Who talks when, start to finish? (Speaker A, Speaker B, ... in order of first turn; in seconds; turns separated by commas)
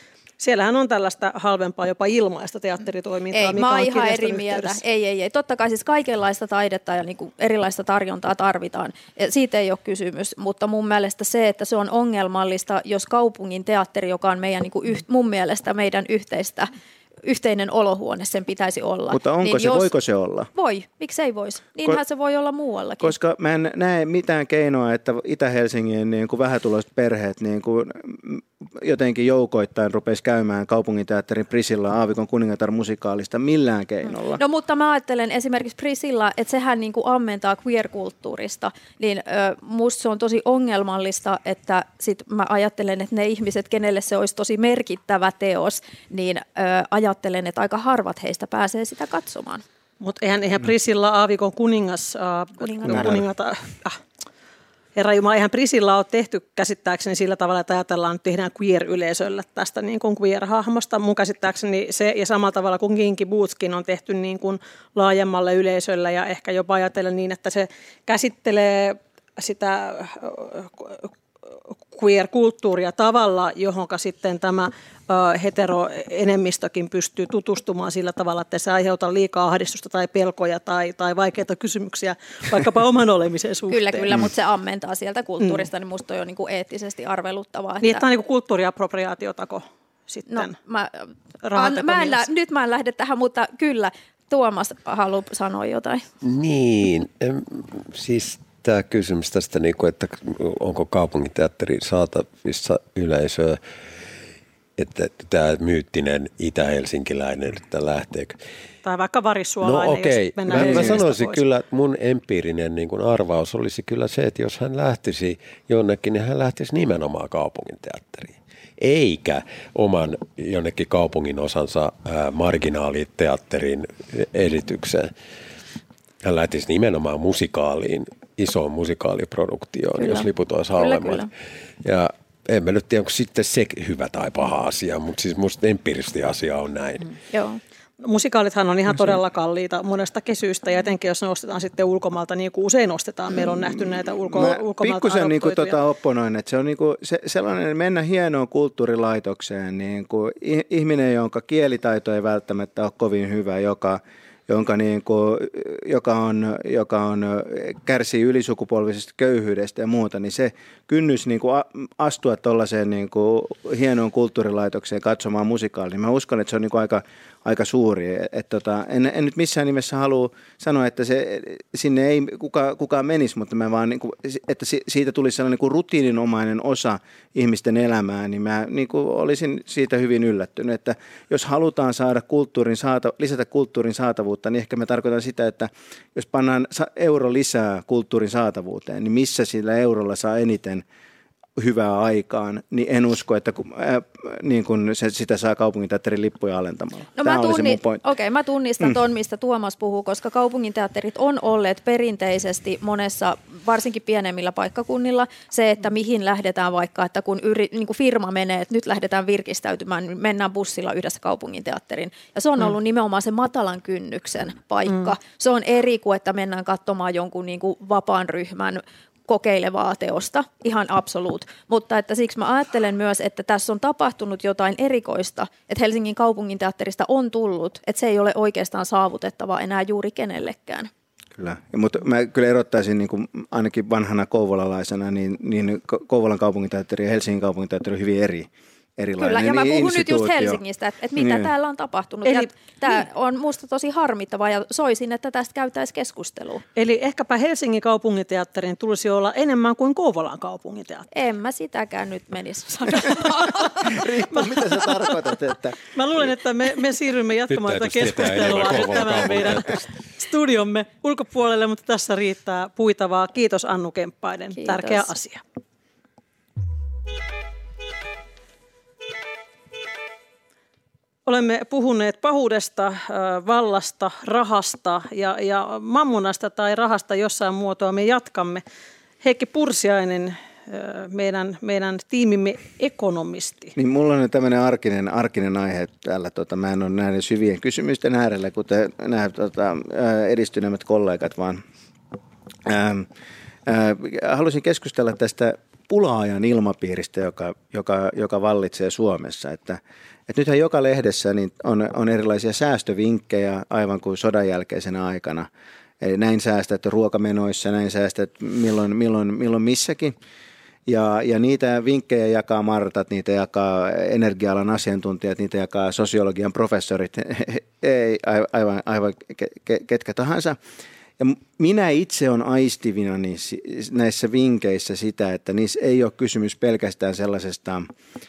Speaker A: 0.4-4.8, Speaker B: 3.3-16.7, Speaker B: 17.2-19.9, Speaker C: 19.1-20.5, Speaker B: 20.5-23.1, Speaker C: 23.0-34.4, Speaker B: 34.3-49.6, Speaker A: 50.0-54.0, Speaker B: 52.6-53.2, Speaker A: 54.9-71.1, Speaker A: 71.9-84.2, Speaker B: 83.7-88.0, Speaker A: 87.8-90.5, Speaker B: 90.3-96.0, Speaker A: 91.4-92.2, Speaker D: 96.2-103.6, Speaker D: 104.8-108.4, Speaker A: 108.8-111.4, Speaker D: 109.6-125.1, Speaker D: 126.2-131.3, Speaker B: 130.0-131.3, Speaker D: 131.8-137.1, Speaker B: 137.3-137.6, Speaker A: 138.0-145.8, Speaker C: 143.8-190.8, Speaker C: 191.6-198.1, Speaker B: 197.1-230.9, Speaker C: 231.4-240.6, Speaker B: 239.2-246.6, Speaker C: 241.2-241.5, Speaker A: 242.2-243.0, Speaker A: 246.8-251.1, Speaker B: 251.1-253.8, Speaker A: 253.1-253.6, Speaker C: 253.8-255.9, Speaker A: 254.3-255.0, Speaker A: 255.9-265.4, Speaker D: 257.5-259.9, Speaker B: 264.6-265.1, Speaker A: 271.2-278.6, Speaker A: 279.2-283.7, Speaker C: 283.8-291.6, Speaker C: 292.6-293.1, Speaker C: 293.6-305.5, Speaker C: 306.0-310.1, Speaker C: 310.9-320.6, Speaker C: 321.2-327.9